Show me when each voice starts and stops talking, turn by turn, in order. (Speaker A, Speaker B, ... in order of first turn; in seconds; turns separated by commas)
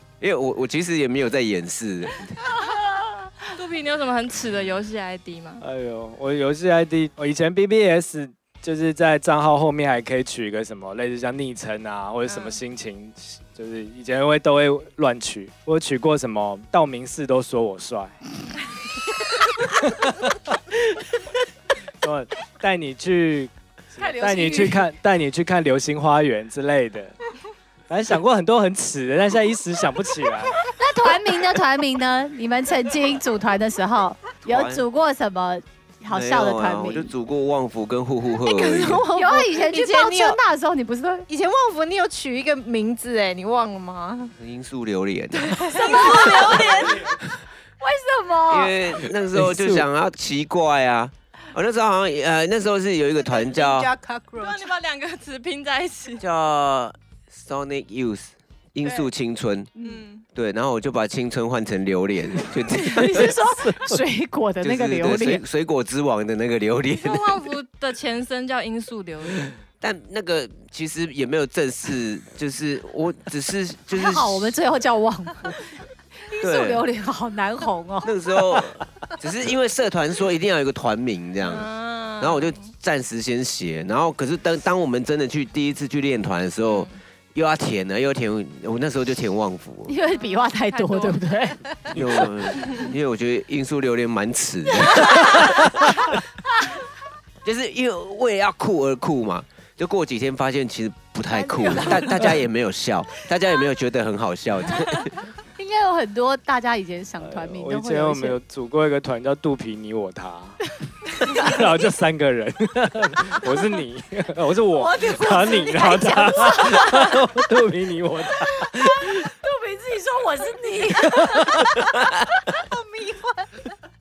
Speaker A: 0.2-2.4, Speaker B: 2.6-3.3, Speaker C: 3.5-5.6, Speaker D: 5.6-18.2, Speaker C: 12.3-12.6, Speaker D: 19.5-21.1, Speaker D: 22.0-27.1, Speaker B: 24.0-24.9, Speaker D: 27.9-30.7, Speaker B: 30.7-37.1, Speaker A: 34.4-34.8, Speaker A: 36.1-39.0, Speaker E: 38.4-40.4, Speaker B: 39.1-41.3, Speaker E: 41.3-44.3, Speaker A: 44.4-45.8, Speaker E: 45.4-47.1, Speaker B: 45.7-47.0, Speaker C: 45.7-47.1, Speaker B: 47.8-48.8, Speaker A: 48.5-53.9, Speaker D: 49.3-49.9, Speaker E: 53.2-54.7, Speaker C: 54.4-56.2, Speaker A: 56.2-59.7, Speaker C: 59.8-60.2, Speaker A: 60.3-63.4, Speaker B: 62.7-65.4, Speaker A: 64.6-67.4, Speaker C: 67.0-69.5, Speaker A: 69.8-74.6, Speaker B: 73.9-78.1, Speaker A: 76.4-76.9, Speaker A: 78.0-81.7, Speaker C: 81.4-82.7, Speaker A: 82.2-89.9, Speaker C: 86.7-87.0, Speaker B: 89.9-92.2, Speaker C: 90.1-91.2, Speaker A: 91.9-95.7, Speaker C: 92.6-92.9, Speaker A: 97.4-105.1, Speaker E: 101.4-102.3, Speaker B: 105.6-108.4, Speaker D: 107.2-110.6, Speaker D: 111.2-119.3, Speaker B: 114.7-117.2, Speaker E: 115.4-116.8, Speaker B: 118.4-121.8, Speaker D: 121.0-121.8, Speaker A: 121.9-122.3, Speaker E: 122.6-123.5